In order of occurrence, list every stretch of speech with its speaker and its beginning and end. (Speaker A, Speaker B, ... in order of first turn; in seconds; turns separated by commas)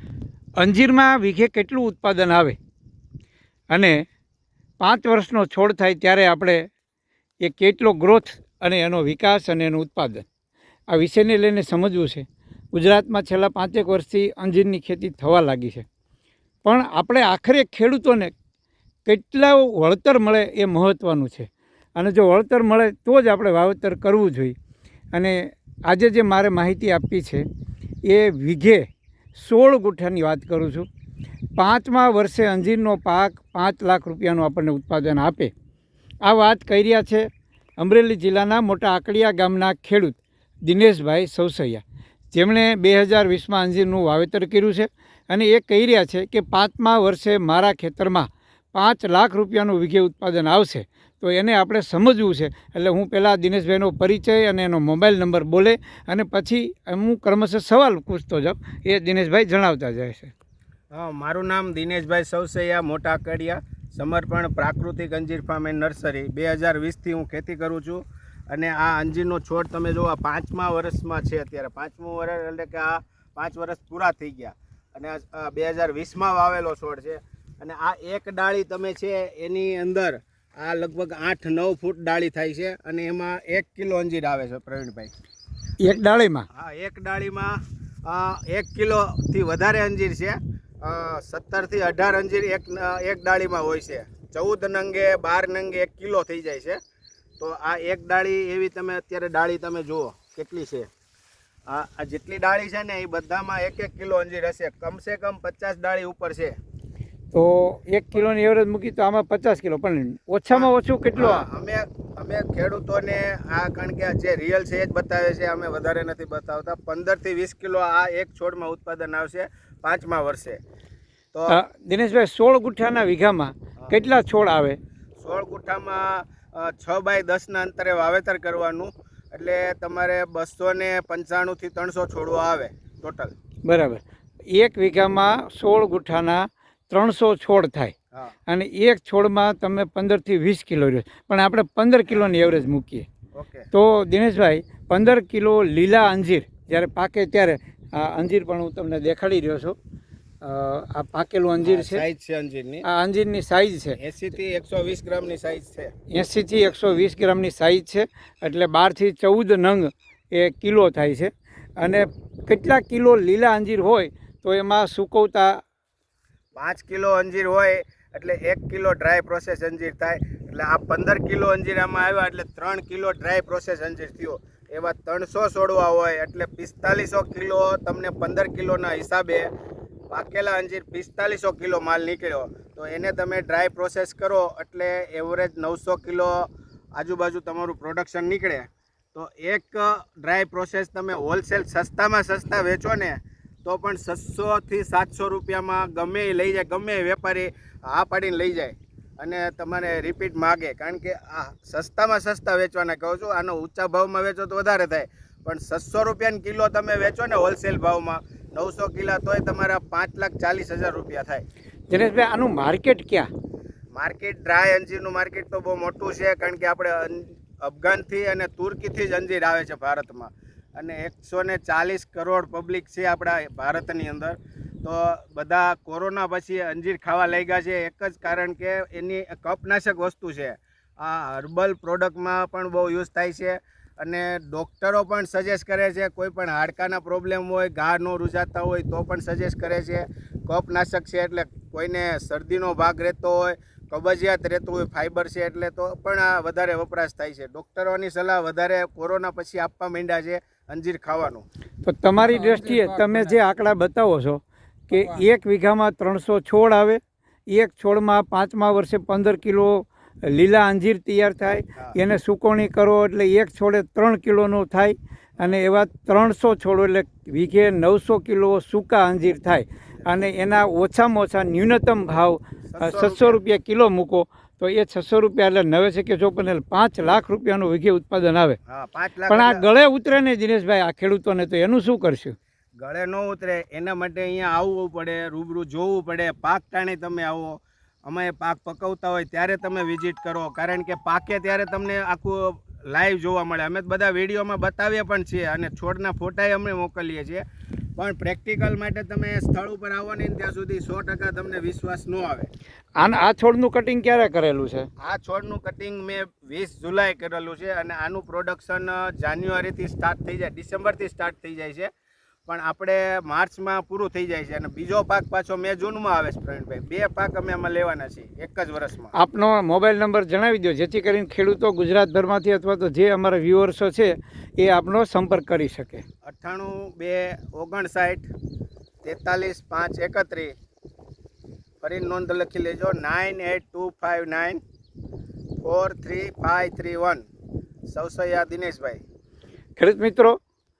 Speaker A: 0.6-2.6, Speaker A: 3.7-4.0, Speaker A: 4.8-6.6, Speaker A: 7.4-10.3, Speaker A: 10.9-15.8, Speaker A: 16.6-18.3, Speaker A: 19.1-24.5, Speaker A: 25.1-27.4, Speaker A: 28.0-30.9, Speaker A: 31.6-35.5, Speaker A: 36.2-37.3, Speaker A: 37.8-60.3, Speaker B: 60.9-85.1, Speaker A: 85.8-86.5, Speaker B: 86.5-96.8, Speaker B: 97.4-100.9, Speaker B: 101.7-106.5, Speaker A: 107.3-111.5, Speaker B: 110.5-120.6, Speaker B: 121.3-121.6, Speaker A: 121.5-124.8, Speaker B: 125.2-133.3, Speaker A: 133.6-137.9, Speaker A: 138.5-143.1, Speaker B: 143.3-143.7, Speaker A: 143.7-149.8, Speaker A: 150.4-152.0, Speaker B: 151.6-152.8, Speaker A: 152.8-154.0, Speaker B: 154.0-155.9, Speaker A: 156.1-165.6, Speaker B: 166.5-179.5, Speaker B: 180.1-211.4, Speaker A: 211.9-213.3, Speaker B: 213.9-251.4, Speaker A: 251.8-278.6, Speaker B: 272.7-273.4, Speaker B: 278.7-279.6, Speaker A: 279.3-282.3, Speaker B: 282.8-297.4, Speaker B: 297.9-302.5, Speaker A: 303.0-304.9, Speaker B: 305.0-311.9, Speaker B: 312.5-319.1, Speaker A: 319.1-326.0, Speaker B: 326.2-328.3, Speaker B: 329.0-330.5, Speaker B: 331.8-334.6, Speaker B: 335.6-337.2, Speaker B: 337.9-339.0, Speaker A: 339.8-340.4